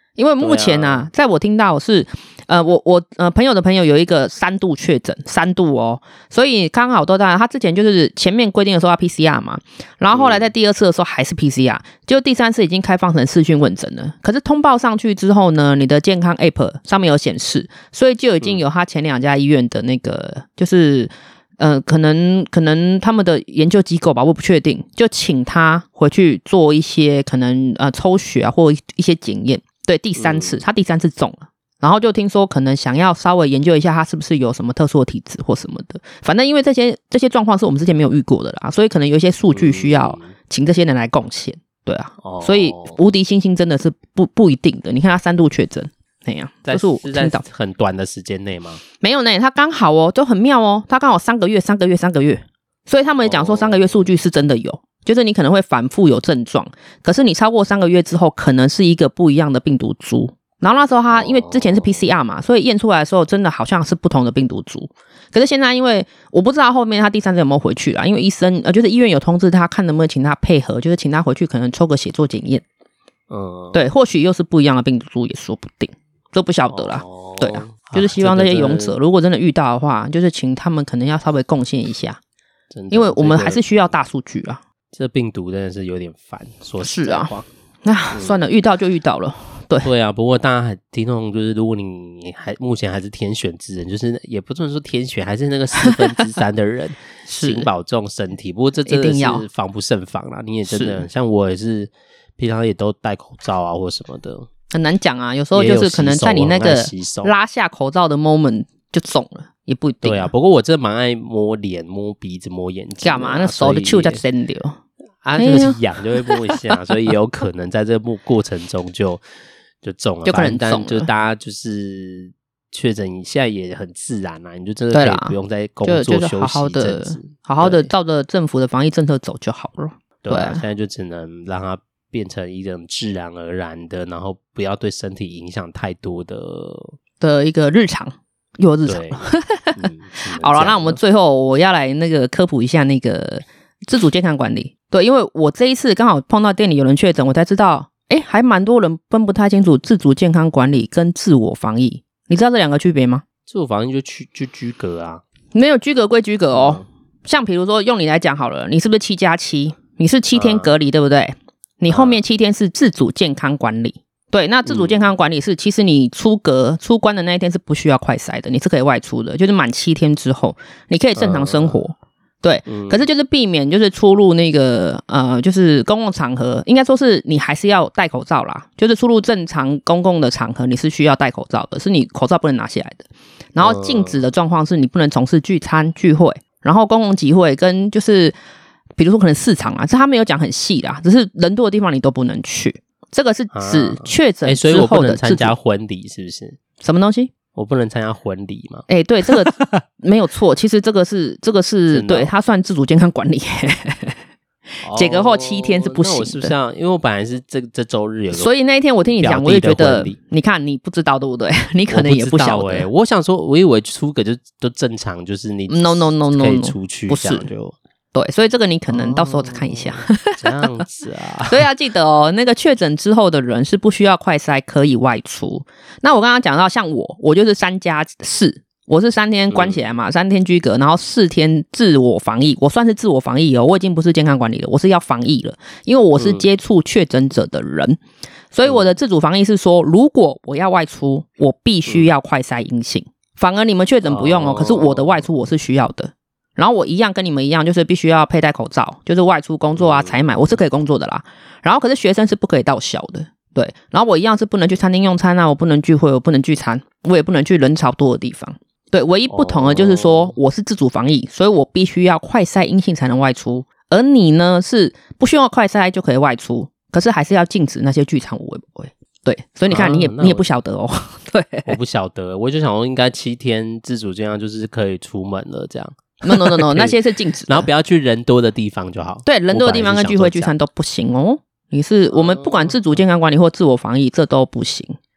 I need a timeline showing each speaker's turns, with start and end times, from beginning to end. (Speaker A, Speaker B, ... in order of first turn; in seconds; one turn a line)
Speaker A: 0.2-47.4
Speaker B: 0.4-1.1
Speaker B: 10.1-10.5
Speaker B: 30.1-30.6
Speaker B: 39.5-40.3
Speaker B: 42.2-43.0
Speaker B: 46.6-48.8
Speaker A: 49.0-72.6
Speaker B: 53.2-54.0
Speaker B: 61.1-62.0
Speaker B: 73.3-73.9
Speaker A: 73.7-82.2
Speaker B: 76.7-79.0
Speaker B: 82.7-83.9
Speaker A: 82.9-84.6
Speaker B: 84.9-87.5
Speaker A: 86.8-87.3
Speaker A: 87.8-89.9
Speaker B: 88.1-88.5
Speaker B: 89.8-104.5
Speaker A: 97.3-97.7
Speaker A: 98.8-99.4
Speaker A: 100.7-101.1
Speaker A: 104.7-110.3
Speaker B: 105.5-107.3
Speaker B: 110.0-114.2
Speaker A: 113.0-114.8
Speaker B: 115.2-119.2
Speaker A: 115.4-116.4
Speaker B: 119.8-127.9
Speaker A: 120.2-121.1
Speaker A: 124.9-130.6
Speaker B: 130.2-137.0
Speaker A: 137.2-153.2
Speaker B: 138.8-141.0
Speaker B: 153.5-155.2
Speaker A: 155.5-188.3
Speaker B: 156.5-156.8
Speaker B: 160.3-160.7
Speaker B: 161.9-162.2
Speaker B: 164.6-165.1
Speaker B: 171.2-171.8
Speaker B: 172.7-173.1
Speaker B: 183.6-184.2
Speaker A: 189.0-195.5
Speaker B: 193.5-196.6
Speaker A: 196.8-197.3
Speaker B: 197.5-199.8
Speaker A: 198.9-204.2
Speaker B: 201.9-202.3
Speaker A: 204.8-206.5
Speaker B: 204.8-208.5
Speaker A: 208.3-212.9
Speaker B: 209.2-210.2
Speaker B: 211.9-217.8
Speaker A: 215.7-217.5
Speaker A: 218.1-220.5
Speaker B: 218.9-221.7
Speaker A: 221.5-238.0
Speaker B: 229.5-229.8
Speaker B: 236.2-236.4
Speaker A: 238.5-271.7
Speaker B: 238.7-238.9
Speaker B: 244.0-245.2
Speaker B: 249.8-250.6
Speaker B: 259.3-260.4
Speaker B: 269.7-270.4
Speaker B: 271.6-280.5
Speaker A: 276.2-277.7
Speaker A: 279.2-285.0
Speaker B: 282.1-283.0